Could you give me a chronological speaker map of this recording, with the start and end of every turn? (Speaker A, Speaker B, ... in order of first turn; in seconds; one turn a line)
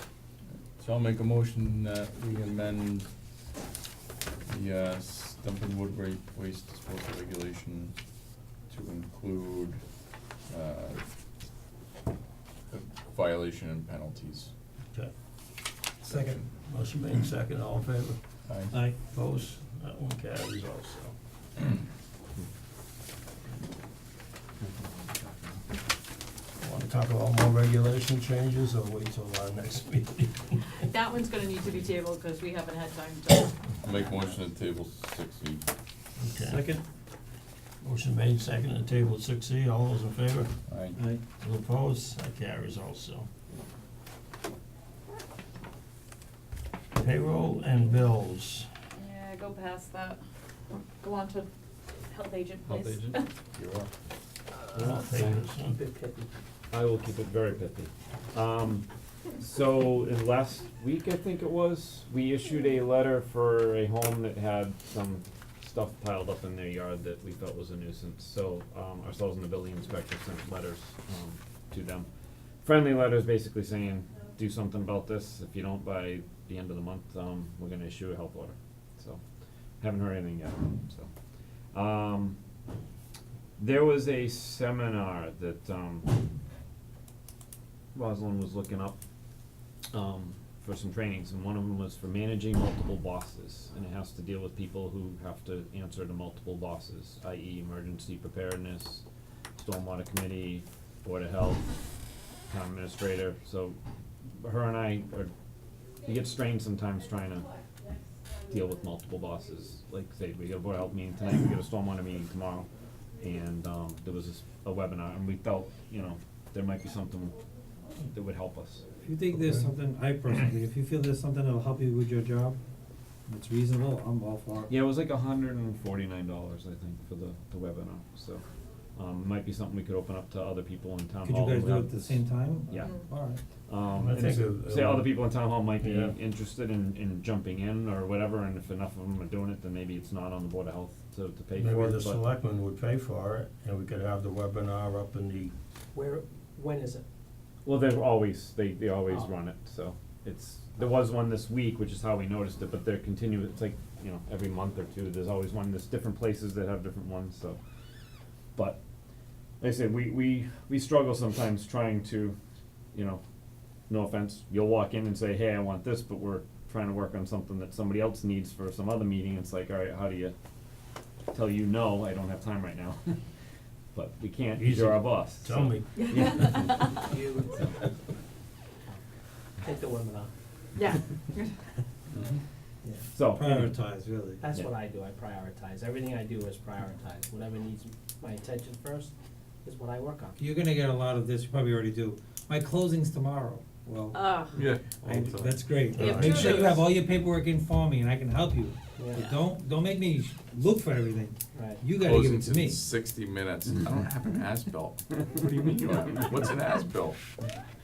Speaker A: 0.5-3.1
Speaker A: 4.5-11.2
Speaker A: 12.7-14.5
Speaker B: 16.0-16.4
Speaker A: 16.1-16.5
Speaker C: 16.6-18.2
Speaker A: 18.5-18.8
Speaker B: 18.7-19.0
Speaker C: 19.0-21.1
Speaker D: 24.6-25.6
Speaker C: 26.6-30.6
Speaker E: 30.8-34.4
Speaker A: 33.8-35.7
Speaker C: 36.2-36.6
Speaker B: 36.4-36.8
Speaker C: 37.8-40.5
Speaker A: 40.7-41.0
Speaker B: 40.9-41.2
Speaker C: 41.4-43.3
Speaker C: 47.0-48.7
Speaker E: 49.0-50.2
Speaker E: 50.7-51.5
Speaker E: 52.1-53.3
Speaker A: 52.6-53.9
Speaker D: 54.7-55.4
Speaker C: 54.7-55.8
Speaker F: 55.4-56.3
Speaker D: 56.7-72.1
Speaker D: 72.6-79.2
Speaker D: 79.8-81.1
Speaker D: 81.7-82.4
Speaker D: 83.6-86.1
Speaker D: 87.9-89.0
Speaker D: 89.9-99.0
Speaker D: 99.6-101.8
Speaker D: 102.5-103.8
Speaker D: 104.4-105.3
Speaker D: 106.0-107.6
Speaker D: 108.3-117.4
Speaker D: 118.0-118.9
Speaker B: 119.0-122.6
Speaker B: 123.3-124.7
Speaker D: 124.7-128.4
Speaker D: 128.9-133.0
Speaker B: 131.2-133.4
Speaker D: 133.7-142.2
Speaker C: 133.9-136.2
Speaker C: 141.6-145.5
Speaker F: 145.9-147.0
Speaker D: 147.7-157.6
Speaker D: 158.6-158.8
Speaker D: 159.6-162.4
Speaker D: 162.9-163.2
Speaker D: 163.9-170.4
Speaker D: 171.3-173.2
Speaker D: 173.9-177.0
Speaker C: 174.6-176.4
Speaker E: 175.9-177.1
Speaker F: 176.9-177.6
Speaker F: 179.6-180.3
Speaker E: 180.8-181.6
Speaker D: 183.1-183.7
Speaker B: 183.3-184.4
Speaker F: 184.4-190.4
Speaker B: 190.4-194.3
Speaker E: 194.1-194.6
Speaker A: 194.5-196.0
Speaker B: 195.0-202.8
Speaker C: 195.9-196.8
Speaker E: 196.0-196.9
Speaker F: 199.0-199.3
Speaker F: 201.5-201.8
Speaker A: 202.0-207.2